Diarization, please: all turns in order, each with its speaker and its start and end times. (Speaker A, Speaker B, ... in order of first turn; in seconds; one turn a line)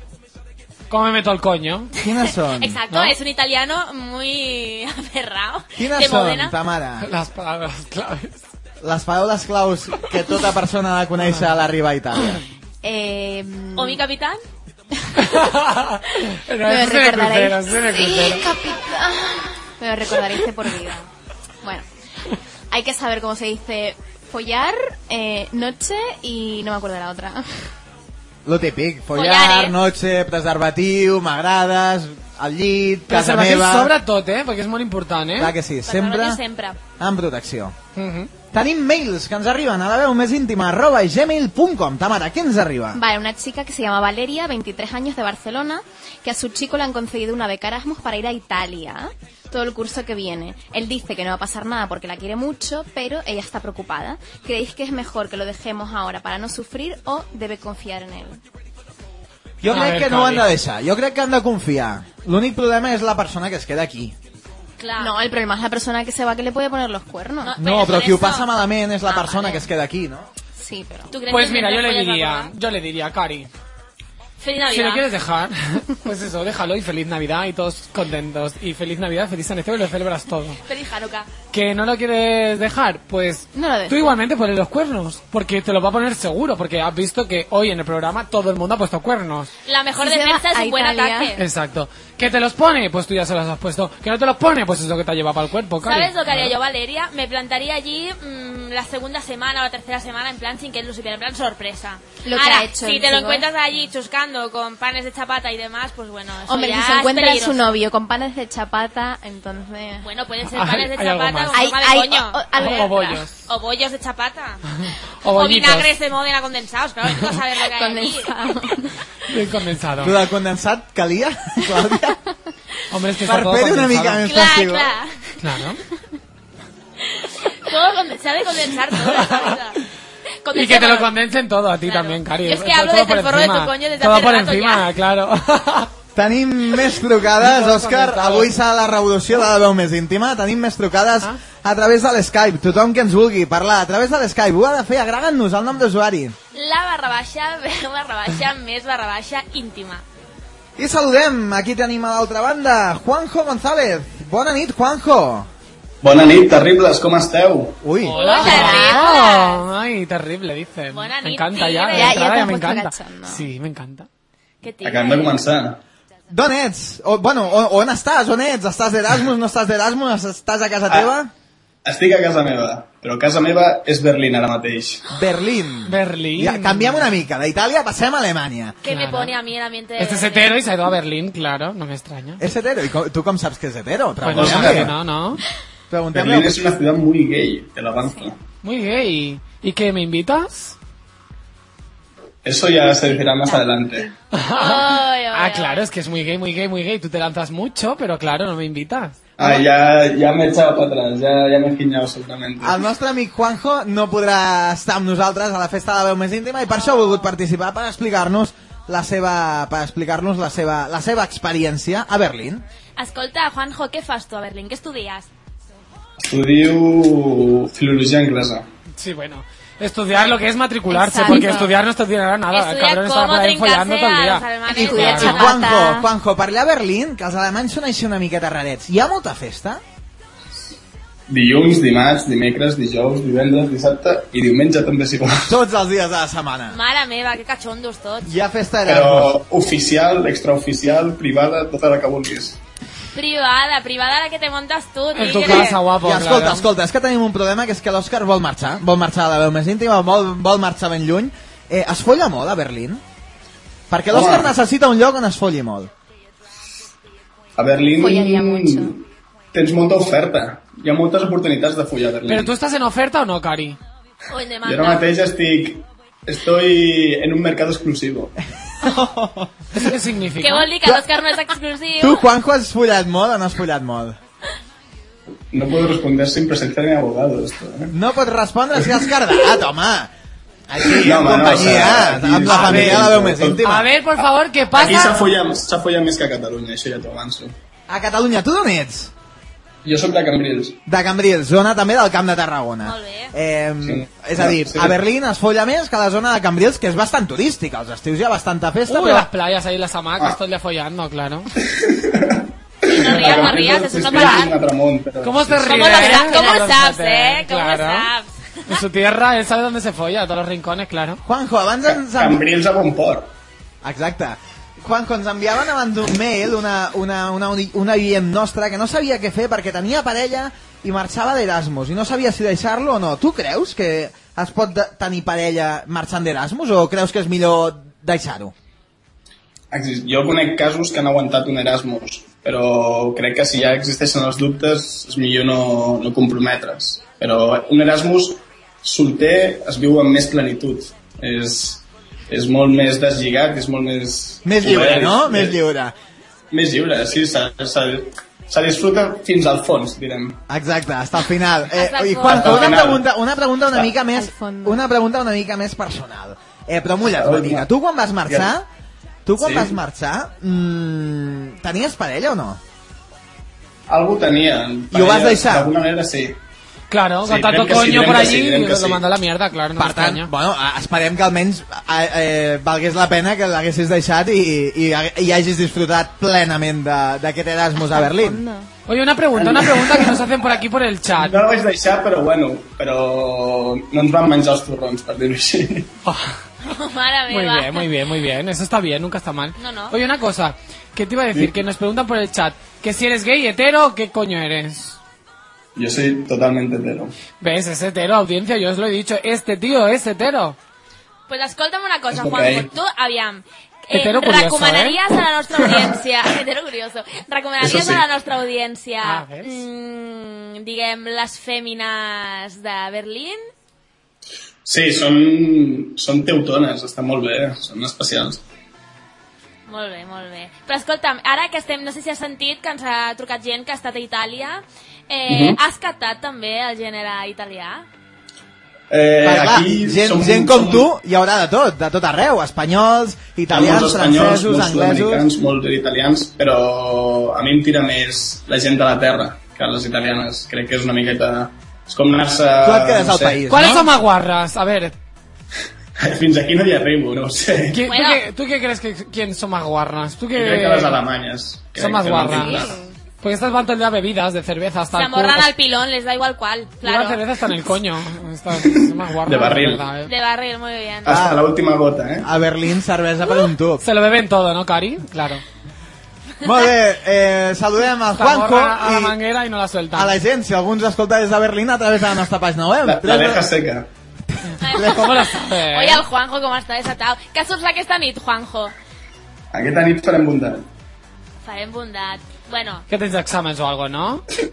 Speaker A: 0.9-1.9
Speaker B: 2.0-2.8
Speaker C: 2.0-6.5
Speaker B: 5.8-7.1
Speaker A: 7.0-8.4
Speaker B: 8.8-12.4
Speaker D: 12.8-14.0
Speaker C: 13.7-14.4
Speaker A: 15.2-18.4
Speaker D: 16.6-21.1
Speaker D: 22.7-27.5
Speaker B: 28.4-33.9
Speaker C: 29.1-29.7
Speaker A: 33.1-35.5
Speaker B: 35.4-36.4
Speaker C: 35.8-36.8
Speaker B: 37.0-37.7
Speaker A: 38.0-38.3
Speaker B: 38.5-43.0
Speaker D: 42.9-58.4
Speaker B: 59.6-64.2
Speaker A: 59.7-60.5
Speaker C: 64.8-65.2
Speaker D: 65.0-67.5
Speaker C: 67.4-68.5
Speaker B: 67.6-70.3
Speaker C: 69.1-69.6
Speaker D: 70.6-71.1
Speaker C: 71.1-72.5
Speaker A: 71.3-73.5
Speaker C: 74.4-75.0
Speaker A: 74.7-80.6
Speaker C: 80.6-81.3
Speaker A: 81.5-89.5
Speaker D: 83.5-84.2
Speaker C: 89.7-91.4
Speaker D: 90.0-91.3
Speaker A: 91.4-96.5
Speaker C: 95.8-107.6
Speaker D: 102.2-103.5
Speaker D: 106.5-110.1
Speaker C: 110.0-114.6
Speaker A: 110.5-111.6
Speaker D: 111.5-113.2
Speaker A: 112.6-113.4
Speaker A: 114.8-115.9
Speaker C: 115.3-118.5
Speaker D: 117.7-119.0
Speaker A: 119.3-120.2
Speaker B: 120.0-122.2
Speaker A: 122.9-124.2
Speaker B: 123.2-124.9
Speaker C: 124.2-125.2
Speaker A: 125.4-125.8
Speaker C: 127.1-129.8
Speaker A: 129.1-129.5
Speaker C: 130.4-131.1
Speaker A: 130.5-135.9
Speaker C: 131.8-134.9
Speaker B: 136.1-146.3
Speaker A: 137.4-138.5
Speaker C: 146.5-150.0
Speaker B: 150.8-155.5
Speaker E: 156.0-157.8
Speaker B: 157.8-158.2
Speaker A: 158.0-164.1
Speaker C: 158.1-159.6
Speaker D: 158.2-159.1
Speaker C: 160.9-162.2
Speaker D: 161.9-163.4
Speaker C: 164.6-165.4
Speaker E: 164.8-165.8
Speaker B: 166.3-171.3
Speaker E: 170.9-171.1
Speaker E: 171.8-175.0
Speaker B: 175.1-178.8
Speaker A: 175.9-177.1
Speaker C: 178.8-180.5
Speaker A: 178.9-179.3
Speaker A: 180.0-182.4
Speaker B: 182.4-184.9
Speaker A: 184.2-185.4
Speaker E: 184.3-184.9
Speaker B: 185.9-186.5
Speaker E: 186.1-188.4
Speaker A: 188.6-190.8
Speaker E: 192.4-194.1
Speaker D: 193.4-194.1
Speaker A: 194.3-199.2
Speaker C: 194.5-195.8
Speaker E: 199.4-202.8
Speaker B: 202.6-212.6
Speaker C: 213.0-215.3
Speaker E: 216.2-218.7
Speaker A: 219.0-225.4
Speaker D: 220.9-221.7
Speaker C: 221.2-221.6
Speaker C: 222.5-225.7
Speaker D: 224.7-226.1
Speaker B: 225.2-229.8
Speaker E: 231.3-235.5
Speaker B: 235.4-236.8
Speaker C: 236.7-238.3
Speaker B: 238.2-239.3
Speaker E: 238.8-242.6
Speaker C: 243.1-245.8
Speaker A: 245.1-246.7
Speaker B: 246.0-253.0
Speaker B: 253.9-255.9
Speaker E: 254.1-254.5
Speaker E: 257.6-259.0
Speaker D: 258.0-258.9
Speaker E: 259.5-262.5
Speaker A: 262.3-263.8
Speaker C: 264.3-265.0
Speaker E: 264.6-268.3
Speaker B: 268.8-269.5
Speaker A: 269.7-270.7
Speaker C: 270.4-272.2
Speaker B: 272.0-274.1
Speaker E: 275.5-277.9
Speaker B: 277.9-280.1
Speaker E: 278.8-279.1
Speaker B: 280.7-283.9
Speaker E: 280.8-283.6
Speaker A: 282.5-283.1
Speaker A: 283.6-285.2
Speaker E: 284.7-287.5
Speaker B: 287.9-289.1
Speaker E: 289.8-290.8
Speaker B: 290.9-299.3
Speaker C: 292.8-293.3
Speaker E: 293.8-295.0
Speaker A: 298.9-301.5
Speaker E: 301.6-306.2
Speaker C: 302.9-304.6
Speaker A: 303.2-303.6
Speaker A: 304.1-304.4
Speaker A: 305.2-308.1
Speaker C: 305.6-308.8
Speaker D: 306.2-306.5
Speaker A: 308.7-311.2
Speaker B: 311.2-312.4
Speaker E: 311.8-313.3
Speaker B: 313.8-328.5
Speaker E: 329.7-345.6
Speaker B: 344.4-345.9
Speaker E: 346.5-350.4
Speaker B: 350.5-358.7
Speaker C: 351.7-352.8
Speaker E: 352.2-353.0
Speaker D: 354.1-354.8
Speaker E: 357.0-357.7
Speaker B: 359.2-362.6
Speaker E: 359.4-359.7
Speaker E: 363.9-366.4
Speaker B: 364.9-365.7
Speaker A: 366.9-370.3
Speaker E: 367.2-369.0
Speaker B: 369.8-378.4
Speaker D: 377.9-378.7
Speaker A: 378.9-381.4
Speaker E: 379.3-380.3
Speaker E: 381.1-385.9
Speaker A: 386.0-386.4
Speaker C: 386.6-387.9
Speaker A: 387.3-395.0
Speaker C: 389.6-389.9
Speaker E: 395.8-397.1
Speaker A: 397.4-400.6
Speaker C: 401.3-413.4
Speaker E: 402.1-402.7
Speaker A: 403.9-405.0
Speaker E: 407.6-408.0
Speaker A: 409.0-409.6
Speaker E: 414.6-418.4
Speaker C: 419.7-427.8
Speaker E: 425.3-425.6
Speaker E: 428.9-430.9
Speaker B: 429.2-435.2
Speaker E: 433.5-443.4
Speaker B: 442.6-443.9
Speaker A: 443.5-444.9
Speaker E: 446.0-447.8
Speaker A: 447.7-451.0
Speaker C: 447.9-448.2
Speaker E: 450.3-452.8
Speaker A: 451.8-452.7
Speaker D: 452.4-452.9
Speaker A: 453.2-455.5
Speaker C: 454.9-457.2
Speaker A: 456.8-460.1
Speaker E: 458.6-459.8
Speaker C: 460.0-461.1
Speaker E: 461.0-462.3
Speaker B: 461.1-461.4
Speaker B: 462.2-463.8
Speaker A: 463.8-465.4
Speaker B: 466.4-469.1
Speaker A: 468.1-470.1
Speaker B: 469.9-473.4
Speaker E: 472.8-473.9
Speaker C: 474.6-478.7
Speaker B: 474.6-475.1
Speaker A: 474.7-476.0
Speaker E: 479.5-480.6
Speaker C: 481.4-482.9
Speaker A: 482.9-484.2